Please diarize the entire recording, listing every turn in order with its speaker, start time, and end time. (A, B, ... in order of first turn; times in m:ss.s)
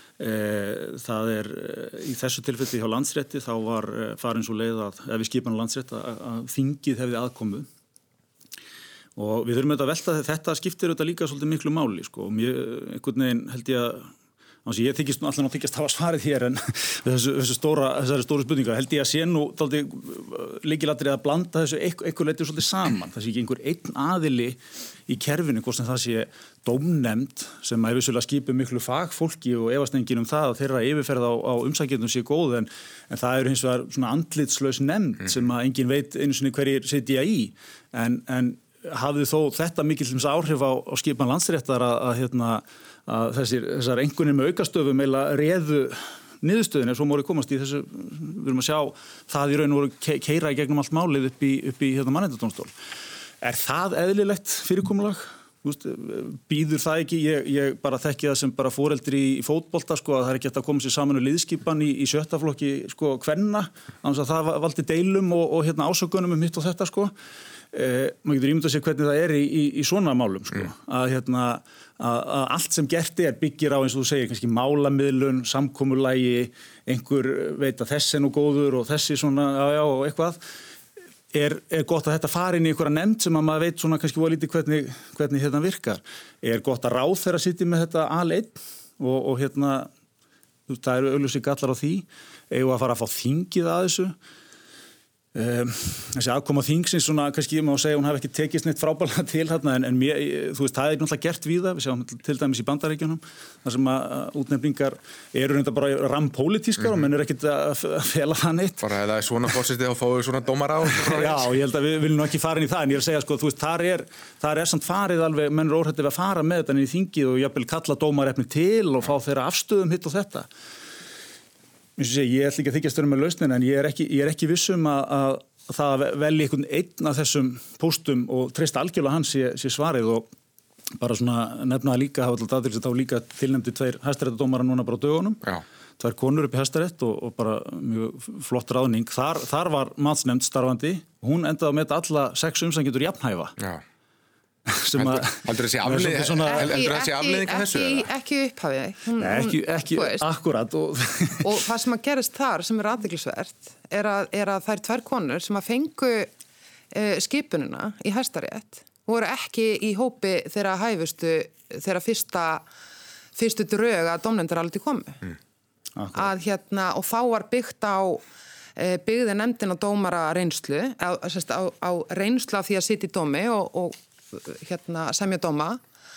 0:00.2-0:07.7 A
0:09.2-0:14.1 A
0:14.6-0:52.7 A
0:53.4-1:07.1 A
1:07.7-1:20.4 A
1:21.3-1:29.9 A
1:30.7-1:34.2 A
1:35.3-1:48.9 A
1:48.8-1:51.5 B
1:50.9-2:00.5 A
2:02.0-2:10.3 A
2:11.0-2:15.4 A
2:16.0-2:23.6 A
2:23.6-2:23.8 B
2:24.7-2:26.7 A
2:25.0-2:28.1 B
2:26.5-2:30.3 C
2:29.2-2:31.6 A
2:31.4-2:36.3 C
2:36.9-2:42.7 C
2:43.4-2:45.2 C
2:46.0-2:46.3 A
2:46.1-2:48.2 C
2:48.8-2:55.8 C